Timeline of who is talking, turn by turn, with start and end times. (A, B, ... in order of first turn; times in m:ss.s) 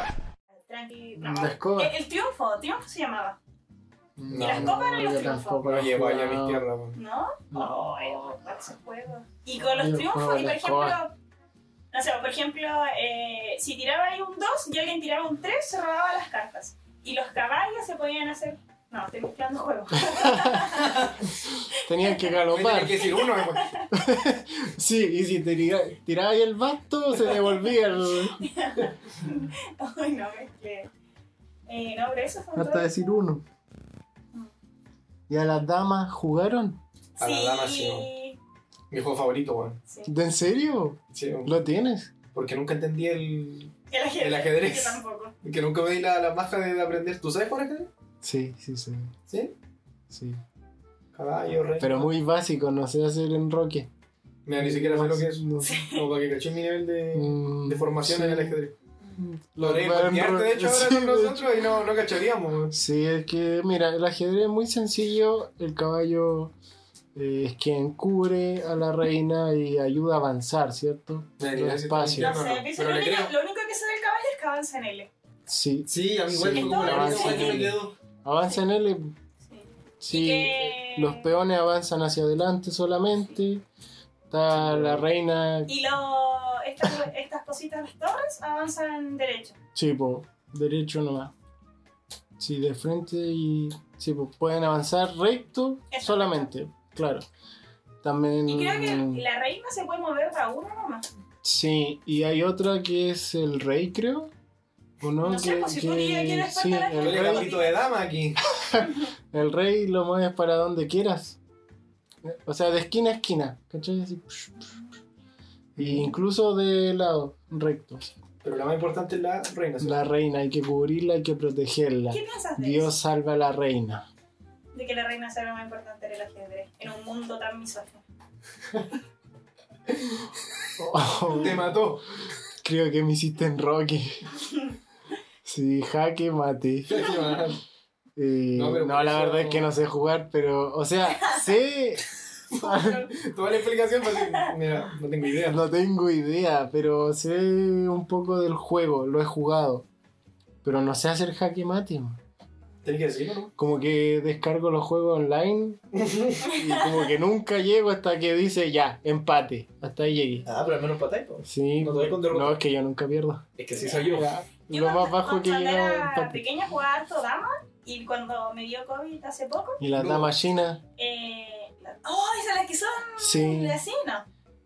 0:00.7-0:03.4 A
0:01.2-0:01.9 B
0:04.2-0:06.7 B
0:04.3-0:07.0 C
0:04.4-0:05.6 A
0:06.9-0:11.1 A
0:07.5-0:08.4 B
0:09.6-0:11.0 B
0:11.9-0:21.1 A
0:20.0-0:20.8 B
0:20.8-0:21.2 C
0:21.6-0:23.0 B
0:22.5-0:23.7 C
0:23.0-0:23.9 A
0:23.9-0:28.4 B
0:28.3-0:30.9 A
0:31.7-0:33.2 A
0:32.5-0:33.4 B
0:35.3-0:36.8 B
0:37.2-0:38.4 A
0:37.2-0:38.1 C
0:38.9-0:39.8 C
0:40.1-0:42.1 B
0:41.1-0:41.5 C
0:42.3-0:47.9 C
0:43.9-0:45.3 A
0:48.2-0:49.1 B
0:49.3-0:49.5 C
0:50.1-0:50.4 B
0:51.1-0:52.1 C
0:51.8-0:53.9 B
0:54.4-0:58.7 C
0:54.6-0:55.8 B
0:55.6-0:56.0 A
0:57.1-0:58.6 B
0:59.1-1:01.5 B
0:59.6-1:02.8 C
1:02.7-1:06.5 B
1:07.1-1:12.4 B
1:11.4-1:13.3 C
1:12.2-1:15.1 A
1:15.5-1:19.1 B
1:15.9-1:17.9 C
1:16.5-1:17.7 A
1:19.4-1:21.3 A
1:20.0-1:23.6 B
1:24.3-1:25.7 B
1:24.5-1:25.0 C
1:25.7-1:29.6 A
1:29.7-1:31.3 B
1:32.4-1:37.2 B
1:35.9-1:36.5 A
1:38.0-1:39.2 B
1:38.4-1:41.0 A
1:41.4-1:44.3 B
1:45.0-1:47.5 B
1:45.2-1:47.8 A
1:47.0-1:48.4 C
1:48.7-1:51.4 B
1:52.2-1:54.7 B
1:55.7-1:56.1 C
1:55.8-1:58.1 B
1:58.4-2:00.0 C
1:59.8-2:04.0 B
2:02.1-2:03.0 A
2:04.7-2:08.0 A
2:10.8-2:11.8 B
2:11.3-2:12.0 C
2:12.6-2:14.3 B
2:15.4-2:17.3 B
2:16.9-2:17.6 C
2:18.2-2:23.1 B
2:18.5-2:19.7 C
2:22.5-2:23.1 A
2:23.2-2:25.6 C
2:25.4-2:29.8 B
2:30.6-2:32.2 B
2:32.8-2:33.5 C
2:33.6-2:35.8 B
2:35.9-2:36.4 C
2:36.4-2:40.5 B
2:36.4-2:37.1 A
2:40.4-2:42.6 C
2:41.4-2:43.4 B
2:43.6-2:44.4 C
2:43.8-2:49.8 A
2:44.1-2:46.4 B
2:49.8-2:50.8 B
2:49.9-2:50.3 C
2:51.0-2:54.3 A
2:53.2-2:53.8 B